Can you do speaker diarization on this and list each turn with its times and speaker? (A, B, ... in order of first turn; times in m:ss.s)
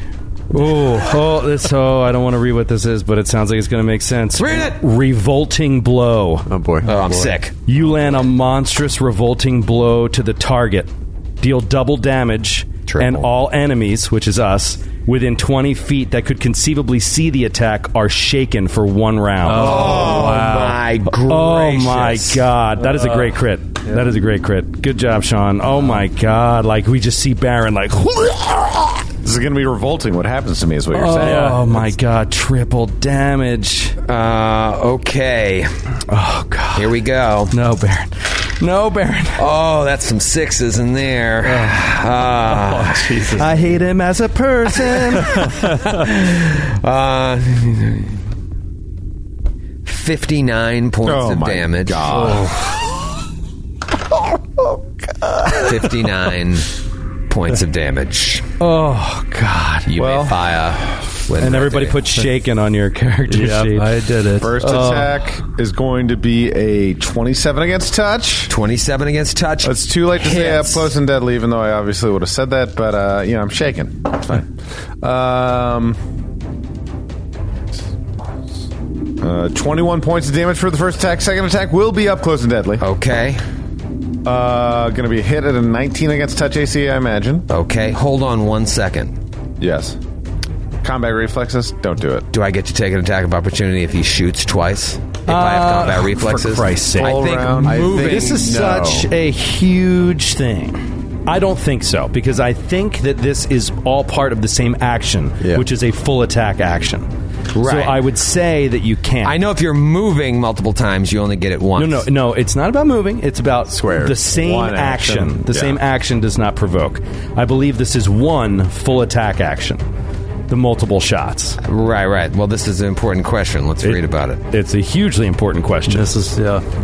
0:00.5-0:06.5 A
0:04.4-0:04.8 B
0:06.5-0:06.9 C
0:06.8-0:07.5 B
0:07.6-0:10.9 A
0:11.4-0:20.3 A
0:12.9-0:13.2 B
0:19.4-0:20.8 D
0:19.6-0:22.4 B
0:21.2-0:29.0 A
0:22.8-0:23.3 D
0:29.2-0:31.6 E
0:30.9-0:34.0 A
0:31.2-0:31.8 D
0:34.1-0:35.7 B
0:36.1-0:37.0 A
0:36.8-0:37.5 B
0:37.5-0:39.4 A
0:39.4-0:43.3 B
0:42.5-0:43.6 D
0:43.4-0:45.5 A
0:45.6-0:48.2 B
0:49.9-0:52.1 B
0:51.0-0:52.5 E
0:55.6-0:56.7 B
0:57.3-0:58.5 B
0:58.6-0:59.9 A
0:59.9-1:02.0 B
1:00.0-1:00.4 E
1:01.4-1:05.1 A
1:03.3-1:05.0 D
1:04.4-1:08.5 E
1:08.5-1:10.9 B
1:09.6-1:14.5 E
1:15.0-1:16.0 E
1:19.2-1:22.8 E
1:22.8-1:23.4 B
1:24.2-1:27.5 E
1:27.5-1:29.2 B
1:29.6-1:30.0 E
1:30.8-1:32.3 E
1:32.3-1:38.5 B
1:35.3-1:37.2 A
1:37.0-1:37.9 E
1:37.6-1:39.1 C
1:37.8-1:47.1 A
1:47.6-1:48.0 B
1:47.6-1:49.4 A
1:49.2-1:52.1 B
1:51.8-1:59.8 A
1:53.7-1:54.1 C
1:54.0-1:55.8 E
2:00.5-2:01.6 A
2:01.6-2:04.4 B
2:03.8-2:06.1 A
2:05.9-2:06.6 D